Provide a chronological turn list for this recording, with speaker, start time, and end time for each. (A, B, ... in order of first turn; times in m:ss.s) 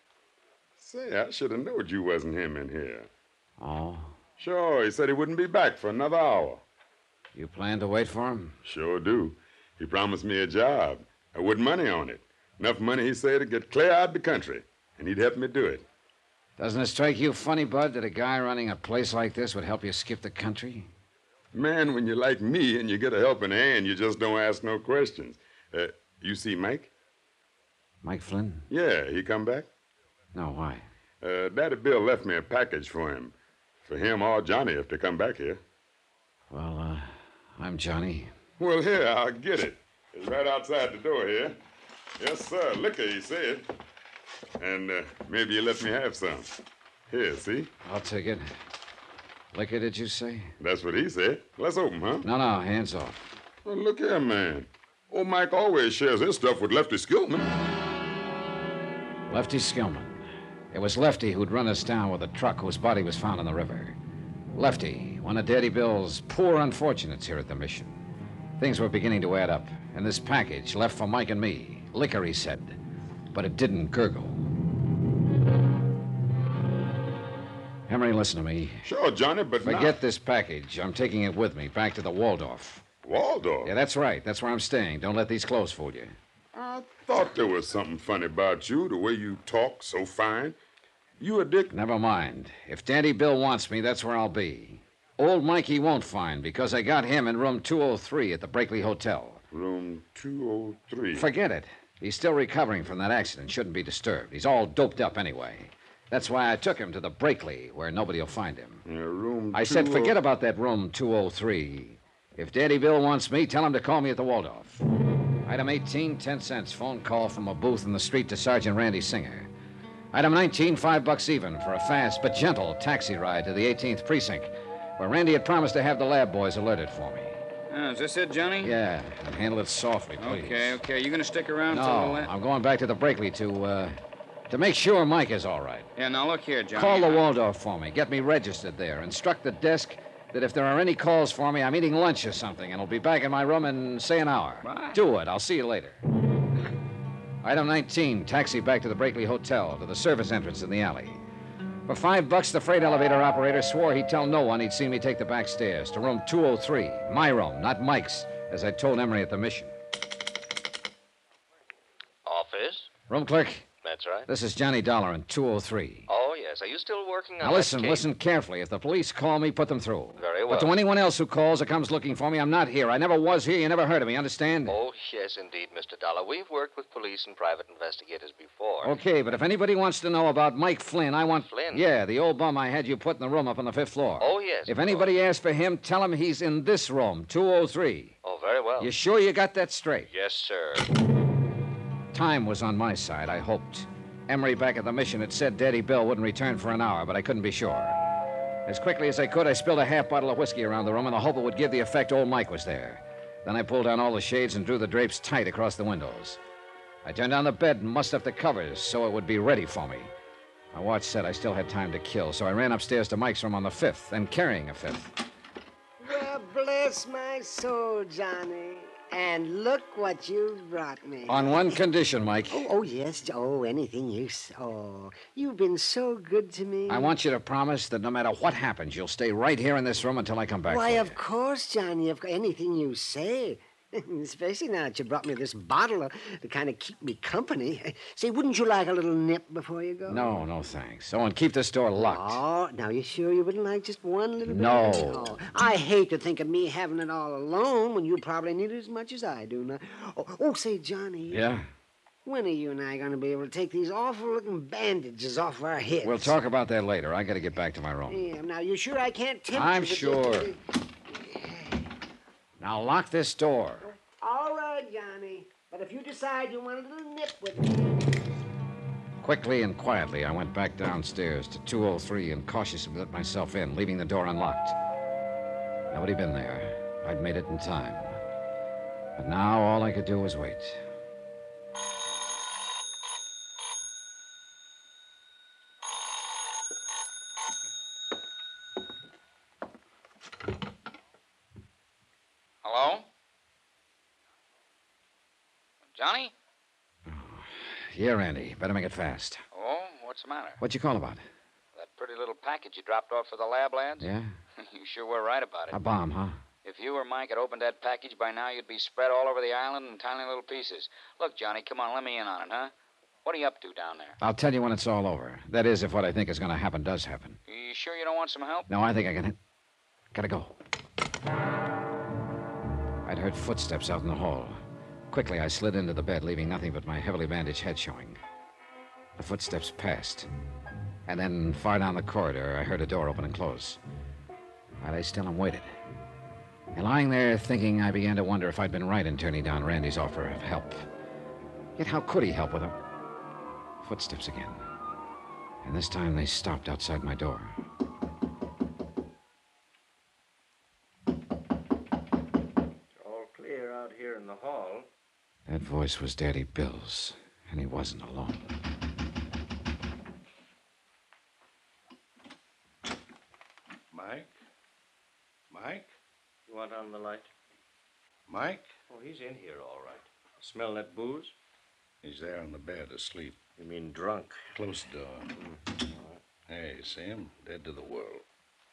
0:00.8-0:03.1 A
0:03.6-0:04.2 B
0:04.4-0:06.6 A
0:07.3-0:08.6 B
0:08.7-0:15.9 A
0:16.6-0:20.9 B
0:21.5-0:26.9 A
0:28.0-0:28.7 B
0:28.7-0:29.7 A
0:30.4-0:30.8 B
0:31.2-0:33.3 A
0:33.9-0:35.6 A
0:36.5-0:38.3 B
0:38.6-0:41.6 A
0:42.2-0:43.7 A
0:44.6-0:46.5 A
0:47.1-0:47.7 A
0:47.8-0:48.5 B
0:49.5-0:50.5 B
0:50.6-0:52.3 A
0:52.2-0:53.3 B
0:53.6-0:57.5 A
0:59.3-1:04.0 B
1:04.6-1:08.0 B
1:08.6-1:12.8 B
1:13.3-1:14.5 B
1:17.9-1:18.9 B
1:18.8-1:20.0 A
1:19.6-1:22.8 B
1:23.0-1:23.7 A
1:23.6-1:26.1 B
1:26.6-1:26.9 C
1:27.0-1:30.6 A
1:31.2-1:31.7 A
1:31.7-1:39.4 B
1:39.5-1:41.3 A
1:41.1-1:48.8 B
1:48.9-1:50.2 A
1:49.5-1:54.8 B
1:55.5-1:59.5 B
2:00.1-2:07.4 B
2:07.7-2:08.7 D
2:08.6-2:10.8 B
2:10.2-2:12.3 D
2:11.7-2:14.0 B
2:14.5-2:15.9 B
2:16.0-2:17.2 D
2:16.8-2:26.0 B
2:24.6-2:25.0 D
2:27.4-2:31.2 B
2:31.9-2:39.7 B
2:42.2-2:42.9 E
2:43.1-2:43.7 B
2:43.8-2:44.3 E
2:44.3-2:46.1 B
2:46.1-2:48.1 E
2:47.4-2:54.8 B
2:50.2-2:50.7 E
2:54.7-2:59.0 E
2:58.8-3:08.2 B
3:01.4-3:01.8 E
3:04.2-3:05.0 E
3:08.2-3:08.9 E
3:08.8-3:10.1 B
3:10.1-3:10.9 E
3:12.1-3:18.0 B
3:18.7-3:26.4 B
3:27.0-3:30.1 B
3:30.7-3:35.2 B
3:36.0-3:41.6 C
3:41.3-3:42.7 B
3:42.5-3:47.2 C
3:46.9-3:51.2 B
3:50.7-4:00.4 C
4:00.1-4:02.4 B
4:02.0-4:11.4 C
4:04.5-4:05.3 B
4:11.3-4:11.7 B
4:12.3-4:16.4 C
4:16.0-4:18.2 B
4:18.1-4:20.6 C
4:19.5-4:20.5 B
4:21.1-4:21.9 C
4:22.6-4:23.9 B
4:23.8-4:28.3 C
4:29.2-4:34.8 B
4:35.9-4:38.2 B
4:39.2-4:40.8 B
4:52.6-4:53.1 D
4:56.0-4:56.3 D
4:57.1-4:59.4 B
4:59.5-5:00.6 D
5:00.6-5:01.2 B
5:01.8-5:04.1 D
5:04.0-5:04.3 B
5:04.7-5:05.8 D
5:05.7-5:06.4 B
5:06.6-5:12.7 D
5:13.2-5:14.2 D
5:14.2-5:17.4 B
5:17.5-5:18.7 D
5:18.7-5:19.4 B
5:20.1-5:20.6 B
5:23.0-5:24.6 B
5:25.1-5:28.2 B
5:29.2-5:30.3 B
5:31.1-5:33.8 B
5:34.8-5:35.8 B
5:36.7-5:40.8 B
5:41.8-5:42.8 B
5:43.8-5:44.6 B
5:45.6-5:47.6 B
5:53.0-5:54.9 F
5:55.5-5:58.5 B
6:03.9-6:04.3 G
6:05.5-6:05.9 G
6:06.5-6:07.3 F
6:08.3-6:08.7 G
6:08.9-6:10.0 E
6:08.9-6:11.3 F
6:12.0-6:13.4 G
6:13.6-6:14.4 F
6:14.5-6:15.3 G
6:16.5-6:18.2 G